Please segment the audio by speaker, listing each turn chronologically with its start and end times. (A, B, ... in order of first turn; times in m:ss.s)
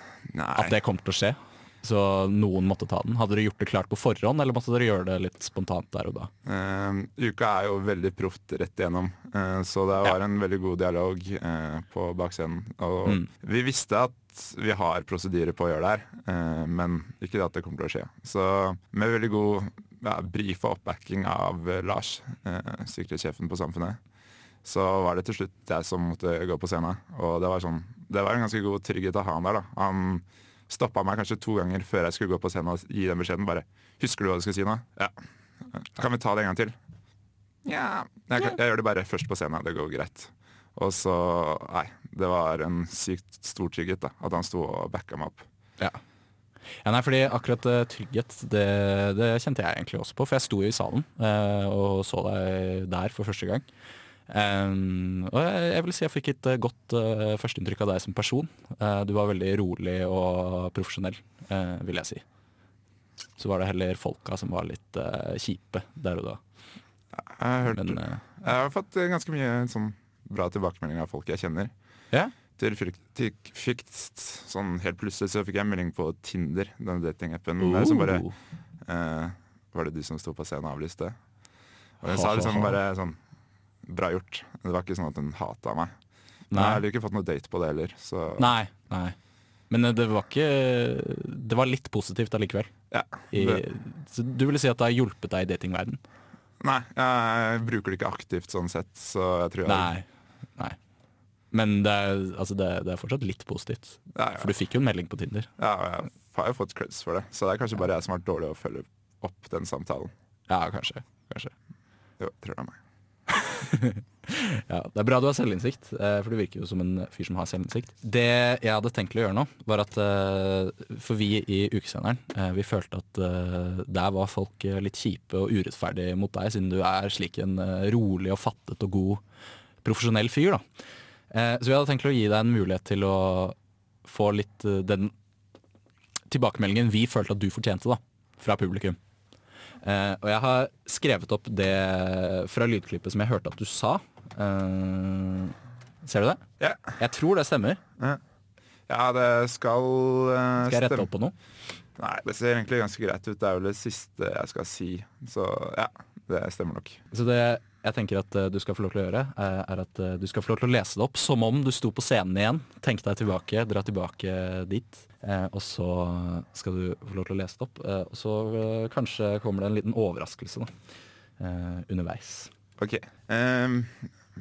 0:00.3-0:00.7 A
0:00.6-0:06.3 B
0:06.4-0:24.0 A
0:24.6-0:35.1 A
0:35.7-0:36.7 A
0:37.6-0:45.4 A
0:46.8-0:53.6 B
0:54.3-1:02.2 B
1:03.4-1:06.4 B
1:07.4-1:11.7 A
1:07.7-1:08.2 B
1:12.5-1:18.3 A
1:17.6-1:18.3 B
1:18.8-1:21.1 A
1:22.0-1:23.2 A
1:22.0-1:22.8 B
1:23.8-1:25.9 A
1:26.5-1:28.5 A
1:26.5-1:26.8 B
1:28.4-1:29.1 B
1:29.7-1:32.7 B
1:32.9-1:33.6 A
1:33.3-1:36.0 B
1:36.6-1:39.9 A
1:39.6-1:40.0 B
1:41.5-1:45.5 B
1:44.2-1:44.5 A
1:45.6-1:50.1 A
1:50.5-1:51.5 B
1:52.2-1:52.8 A
1:53.4-2:09.2 B
2:09.8-2:10.6 B
2:11.3-2:15.1 B
2:16.3-2:19.0 B
2:19.8-2:26.4 B
2:26.6-2:26.9 A
2:27.0-2:27.8 B
2:28.9-2:31.1 A
2:30.6-2:31.3 B
2:32.0-2:37.0 A
2:37.1-2:50.7 B
2:51.4-2:52.5 B
2:52.8-2:54.0 A